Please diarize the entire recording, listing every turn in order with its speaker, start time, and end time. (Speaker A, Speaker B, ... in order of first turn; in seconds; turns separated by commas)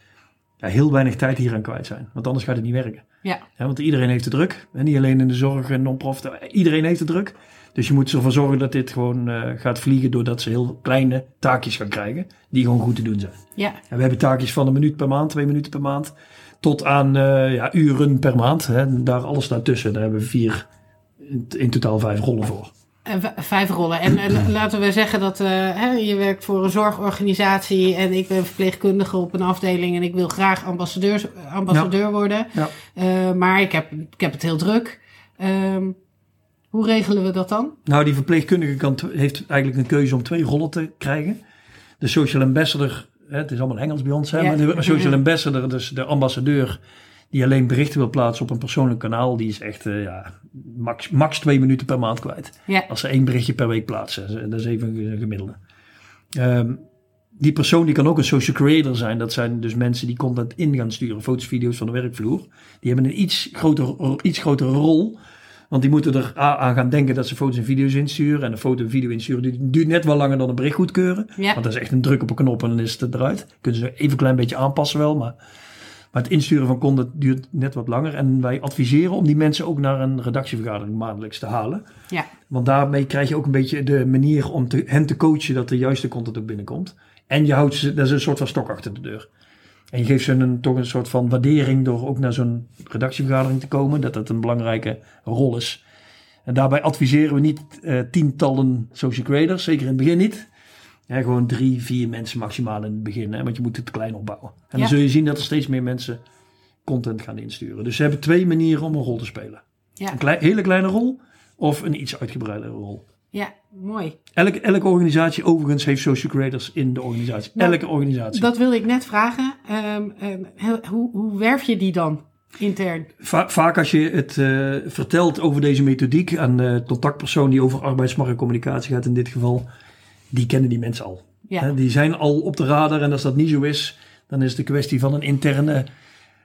Speaker A: 0.6-3.0, Speaker A: 3.6-13.4, Speaker A: 13.9-20.7, Speaker A: 21.2-22.7, Speaker B: 23.1-36.0, Speaker B: 36.7-37.8, Speaker A: 37.9-41.4, Speaker A: 42.0-46.8, Speaker B: 44.4-45.2, Speaker A: 47.3-55.6, Speaker A: 56.4-56.8, Speaker A: 57.4-65.2, Speaker A: 65.7-75.3, Speaker A: 76.1-81.8, Speaker A: 82.5-89.3, Speaker A: 89.9-95.8, Speaker A: 96.5-100.5, Speaker A: 101.1-106.2, Speaker A: 106.8-113.0, Speaker B: 113.3-114.2, Speaker A: 114.3-118.5, Speaker B: 117.6-117.8, Speaker B: 118.3-123.1, Speaker A: 123.2-129.7, Speaker A: 130.3-135.9